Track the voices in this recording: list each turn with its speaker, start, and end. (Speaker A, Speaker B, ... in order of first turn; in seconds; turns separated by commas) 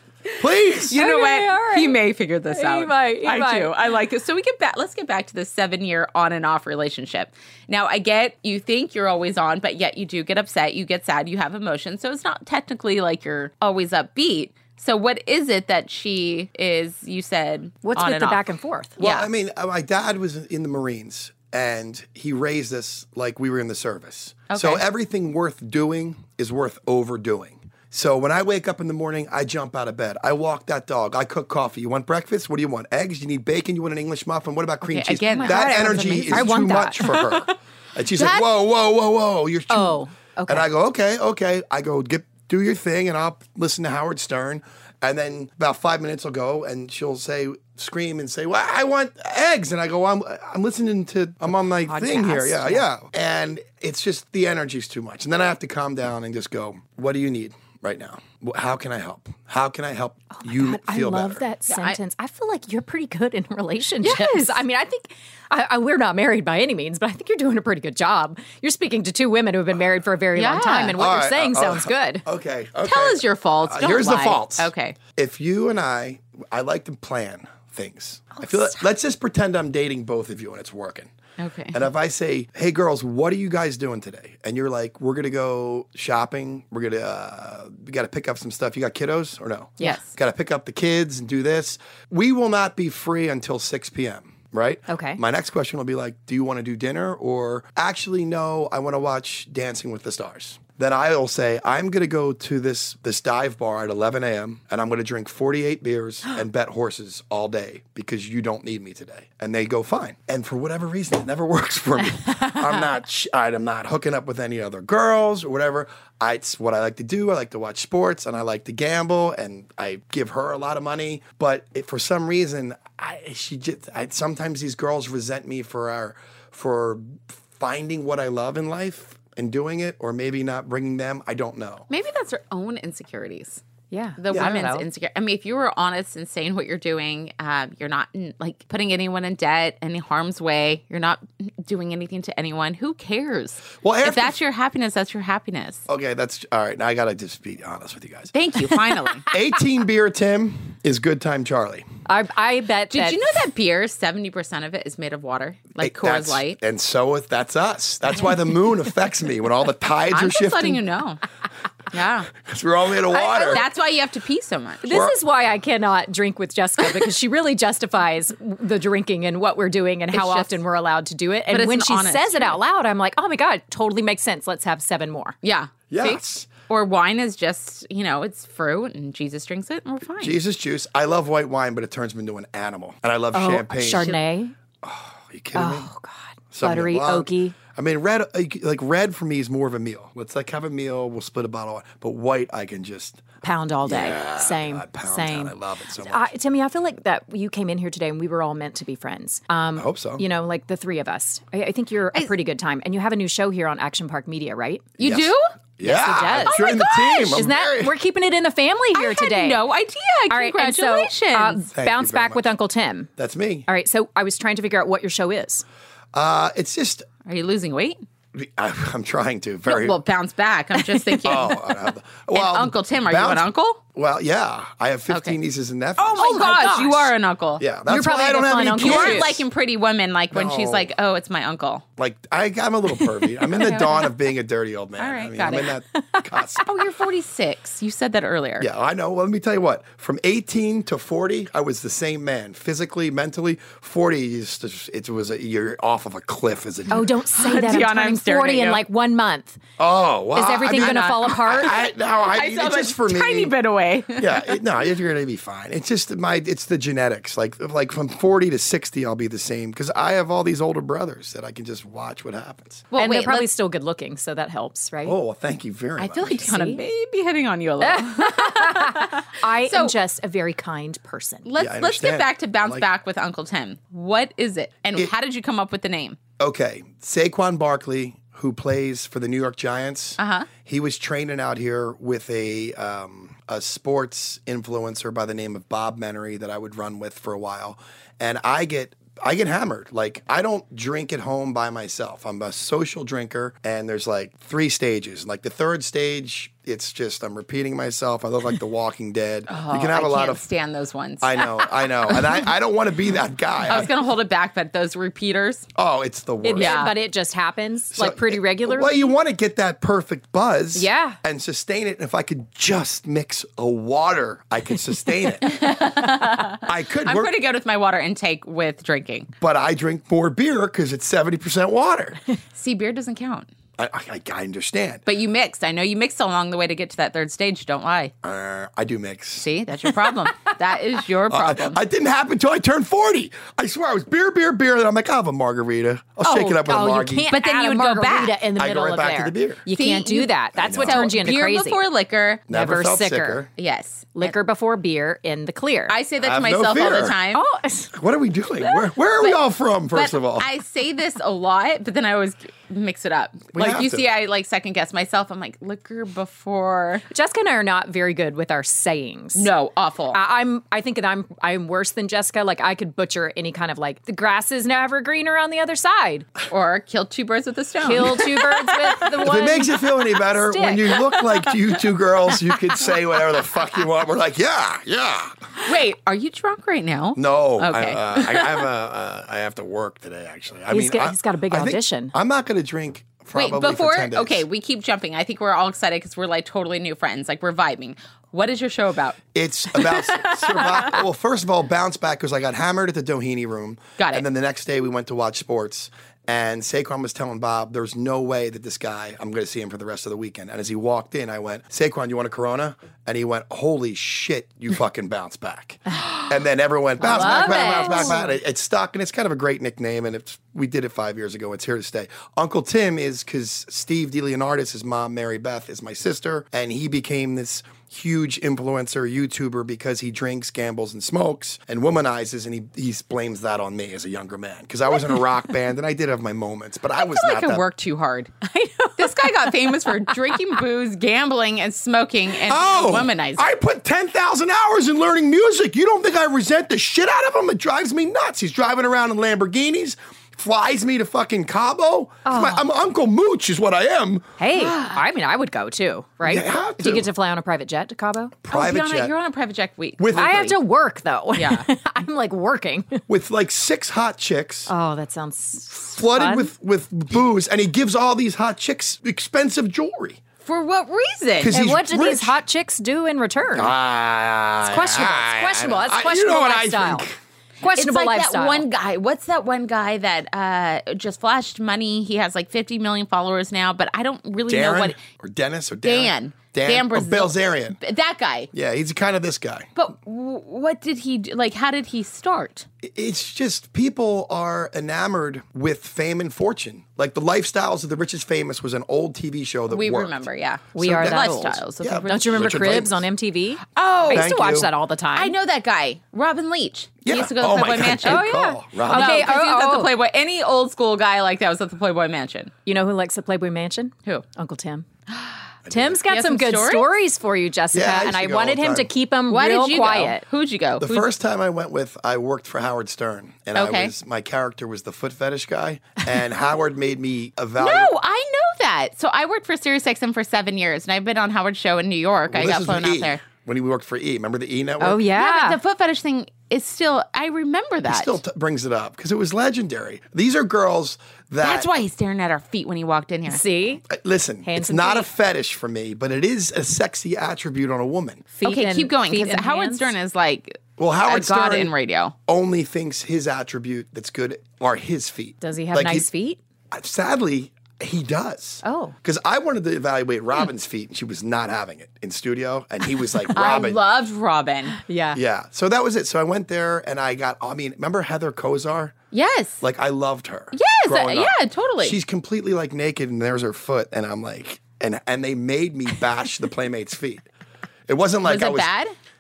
Speaker A: 0.4-1.0, Speaker B: 0.7-18.4, Speaker C: 0.9-2.0, Speaker C: 2.5-3.7, Speaker C: 17.8-19.0, Speaker B: 19.0-19.3, Speaker A: 19.0-61.4, Speaker B: 24.5-24.8, Speaker B: 34.8-37.4, Speaker C: 35.3-37.2, Speaker B: 38.1-38.5, Speaker C: 39.7-40.7, Speaker C: 51.9-52.9, Speaker C: 60.3-72.2, Speaker B: 61.7-62.0, Speaker B: 64.0-64.6, Speaker B: 70.3-71.0, Speaker A: 71.0-81.1, Speaker B: 72.8-75.0, Speaker C: 78.3-78.7, Speaker B: 81.4-81.8, Speaker A: 81.7-131.9, Speaker B: 89.8-90.1, Speaker C: 94.9-95.2, Speaker B: 131.9-133.6, Speaker C: 133.9-134.8, Speaker B: 134.2-145.8, Speaker A: 143.8-144.4, Speaker A: 145.9-148.3, Speaker B: 148.3-149.3, Speaker A: 149.3-151.9, Speaker C: 152.1-153.2, Speaker B: 152.9-156.6, Speaker A: 155.8-160.8, Speaker B: 160.1-161.2, Speaker B: 161.9-162.3, Speaker A: 162.4-163.6, Speaker C: 163.1-163.6, Speaker B: 163.1-164.9, Speaker C: 164.8-175.3, Speaker A: 164.9-165.2, Speaker B: 170.1-170.6, Speaker B: 171.5-172.6, Speaker B: 175.4-180.4, Speaker A: 175.9-176.5, Speaker A: 180.2-184.2, Speaker C: 183.3-184.5, Speaker A: 184.8-185.9, Speaker C: 185.5-187.6, Speaker A: 186.5-193.2, Speaker C: 193.4-204.9, Speaker A: 193.8-196.3, Speaker A: 199.8-200.2, Speaker B: 205.0-205.5, Speaker A: 205.0-207.9, Speaker C: 205.8-206.6, Speaker B: 206.2-207.5, Speaker C: 207.3-209.6, Speaker B: 208.9-211.6, Speaker C: 210.3-213.1, Speaker A: 211.7-212.5, Speaker A: 213.2-213.7, Speaker C: 213.7-215.6, Speaker A: 216.1-217.1, Speaker B: 217.2-218.0, Speaker A: 218.3-220.0, Speaker B: 219.7-221.7, Speaker A: 221.2-226.6, Speaker B: 222.3-223.8, Speaker B: 225.1-225.4, Speaker B: 226.0-227.7, Speaker C: 226.0-227.1, Speaker A: 227.6-229.4, Speaker C: 227.9-229.3, Speaker B: 228.7-231.8, Speaker A: 230.3-230.9, Speaker A: 232.0-236.7, Speaker B: 233.5-234.1, Speaker B: 235.0-235.8, Speaker C: 236.0-236.6, Speaker B: 236.6-238.7, Speaker A: 238.6-247.1, Speaker C: 246.9-249.6, Speaker B: 247.3-248.8, Speaker A: 249.8-253.5, Speaker C: 250.3-251.8, Speaker B: 250.7-254.6, Speaker A: 254.2-262.9, Speaker B: 262.9-263.5, Speaker C: 263.0-265.2, Speaker A: 265.1-266.5, Speaker B: 266.0-269.9, Speaker C: 266.5-266.8, Speaker C: 267.8-271.5, Speaker B: 271.4-276.2, Speaker A: 271.6-272.9, Speaker A: 276.4-300.4, Speaker B: 280.2-280.5, Speaker B: 299.5-302.4, Speaker A: 301.2-303.9, Speaker B: 303.6-305.7, Speaker A: 305.8-306.9, Speaker C: 306.4-309.1, Speaker B: 306.6-306.9, Speaker A: 307.9-315.7, Speaker C: 310.8-311.2, Speaker B: 315.4-319.3, Speaker A: 316.6-317.3, Speaker A: 319.4-322.2, Speaker B: 322.6-323.5, Speaker A: 323.8-325.0, Speaker B: 325.1-328.1, Speaker A: 328.2-329.5, Speaker B: 329.4-331.8, Speaker A: 331.3-337.3, Speaker C: 336.2-341.8, Speaker B: 337.3-338.4, Speaker A: 338.6-339.6, Speaker B: 339.7-342.5, Speaker A: 340.6-341.2, Speaker A: 342.5-343.5, Speaker C: 342.5-343.4, Speaker B: 343.6-344.3, Speaker C: 344.1-346.0, Speaker B: 345.9-347.4, Speaker A: 346.2-347.2, Speaker C: 347.3-347.9, Speaker A: 347.9-350.5, Speaker B: 349.2-357.0, Speaker A: 353.5-354.0, Speaker C: 357.1-359.5, Speaker B: 359.4-360.2, Speaker C: 360.1-366.3, Speaker B: 366.5-369.0, Speaker C: 367.8-371.2, Speaker A: 369.0-375.5, Speaker B: 375.6-378.7, Speaker A: 377.1-384.4, Speaker C: 380.7-382.1, Speaker B: 383.4-389.2, Speaker A: 389.3-427.6, Speaker B: 389.7-390.9, Speaker B: 394.0-394.2, Speaker C: 407.0-408.3, Speaker B: 407.0-408.2, Speaker B: 427.0-428.4, Speaker C: 428.4-430.4, Speaker B: 429.0-433.5, Speaker A: 432.4-444.4, Speaker C: 442.2-442.7, Speaker C: 444.4-448.3, Speaker B: 444.6-445.0, Speaker A: 446.2-447.1, Speaker A: 448.4-449.1, Speaker B: 448.5-450.6, Speaker A: 450.0-450.5, Speaker C: 450.1-453.0, Speaker B: 451.3-451.6, Speaker A: 453.1-454.7, Speaker C: 454.7-456.5, Speaker A: 455.8-460.2, Speaker B: 460.4-461.5, Speaker A: 461.4-462.4, Speaker C: 461.5-463.7, Speaker A: 463.6-467.2, Speaker C: 464.6-467.1, Speaker C: 467.6-468.6, Speaker B: 467.7-475.0, Speaker A: 474.5-477.8, Speaker B: 475.8-478.5, Speaker A: 478.5-479.7, Speaker B: 479.8-482.7, Speaker A: 482.8-493.1, Speaker B: 489.7-492.8, Speaker C: 490.8-495.3, Speaker B: 493.8-494.3, Speaker A: 494.1-494.7, Speaker B: 495.1-502.5, Speaker A: 497.1-499.3, Speaker C: 498.0-499.9, Speaker C: 502.7-504.9, Speaker A: 505.7-506.0, Speaker C: 505.7-510.2, Speaker B: 506.1-506.9, Speaker A: 507.7-508.9, Speaker B: 509.3-511.1, Speaker A: 510.8-517.9, Speaker B: 513.5-513.9, Speaker B: 517.6-523.2, Speaker A: 522.3-525.0, Speaker C: 524.8-525.6, Speaker B: 525.2-528.2, Speaker A: 527.9-531.7, Speaker B: 531.4-533.4, Speaker C: 533.3-533.8, Speaker A: 533.9-538.2, Speaker C: 534.5-535.1, Speaker C: 538.3-539.9, Speaker B: 538.4-542.1, Speaker A: 540.8-541.7, Speaker A: 542.3-546.1, Speaker C: 545.4-546.4, Speaker A: 546.7-553.8, Speaker C: 548.6-549.0, Speaker B: 553.3-554.8, Speaker C: 554.8-555.2, Speaker A: 555.1-559.0, Speaker B: 559.1-559.6, Speaker A: 559.6-567.3, Speaker B: 560.5-562.0, Speaker A: 567.9-568.7, Speaker B: 568.2-568.9